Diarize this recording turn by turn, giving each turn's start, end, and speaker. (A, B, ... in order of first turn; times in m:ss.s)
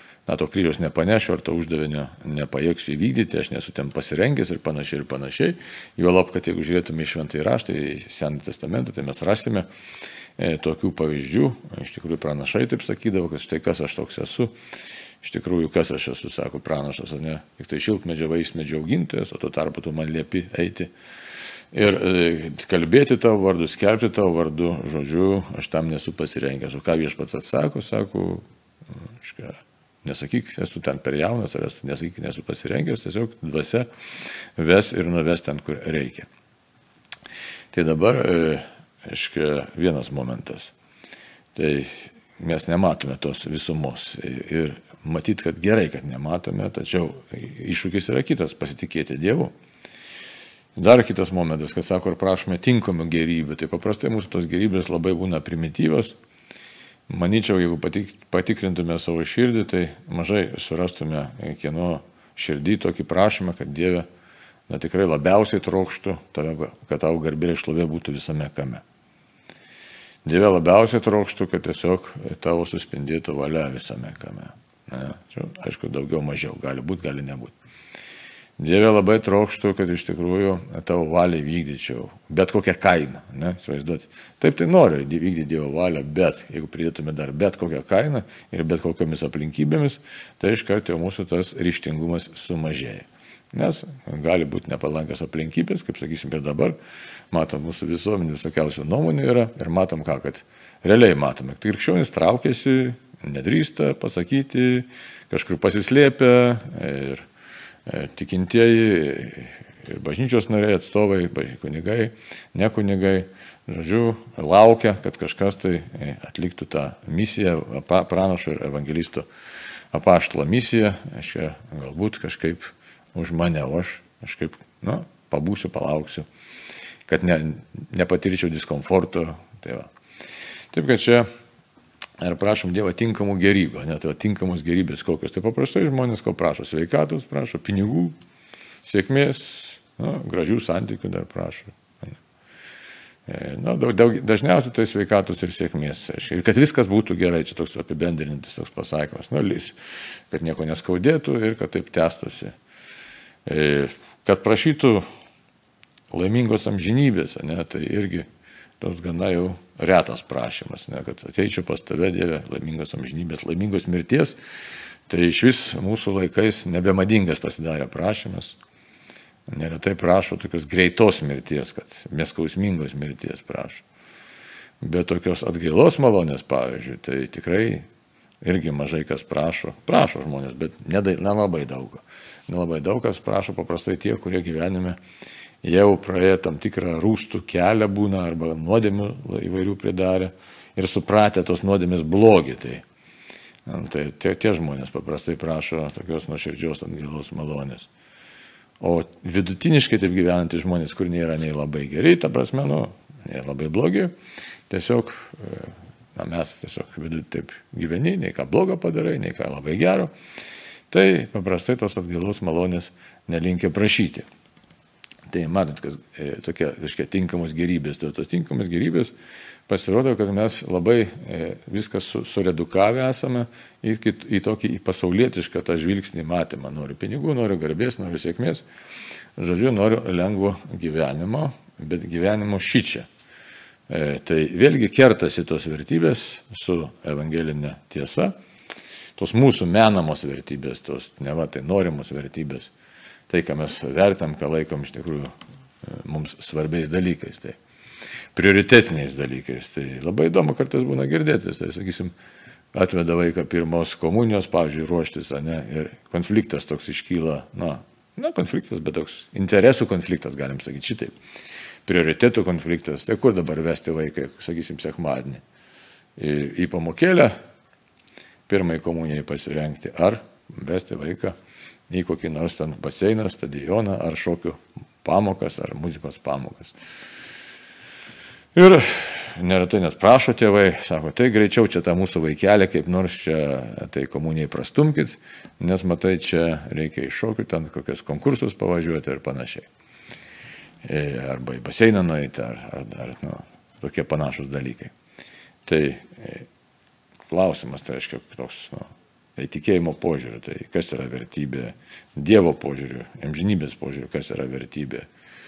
0:00.2-0:09.7 A
0:10.4-0:14.5 A
0:15.2-0:20.9 A
0:21.7-0:28.4 A
0:29.2-0:33.9 A
0:34.6-0:36.3 A
0:37.7-0:40.7 A
0:41.5-0:49.5 A
0:50.8-0:56.2 A
0:57.1-1:04.0 A
1:04.7-1:08.8 A
1:10.2-1:17.5 A
1:18.6-1:36.8 A
1:37.3-1:47.3 A
1:47.8-1:59.3 A
1:59.9-2:06.3 A
2:07.1-2:09.9 A
2:10.7-2:11.3 A
2:12.2-2:18.1 A
2:18.8-2:22.2 A
2:23.3-2:29.8 A
2:30.3-2:32.5 A
2:33.4-2:35.0 A
2:36.1-2:38.3 A
2:38.8-2:44.4 A
2:45.1-2:48.6 A
2:49.5-2:53.8 A
2:54.8-2:57.8 A
2:58.4-3:05.0 A
3:05.6-3:12.8 A
3:13.6-3:17.9 A
3:18.8-3:24.1 A
3:24.7-3:30.1 A
3:30.9-3:34.2 A
3:35.3-3:39.1 A
3:39.7-3:48.6 A
3:49.4-3:53.1 A
3:53.9-3:58.3 A
3:59.2-4:02.7 A
4:03.3-4:05.3 A
4:05.8-4:07.6 A
4:08.3-4:12.1 A
4:12.7-4:21.1 A
4:21.8-4:25.4 A
4:26.2-4:27.3 A
4:28.5-4:31.4 A
4:31.9-4:36.7 A
4:38.5-4:49.7 A
4:50.8-4:54.9 A
4:55.6-4:56.5 A
4:57.3-5:05.1 A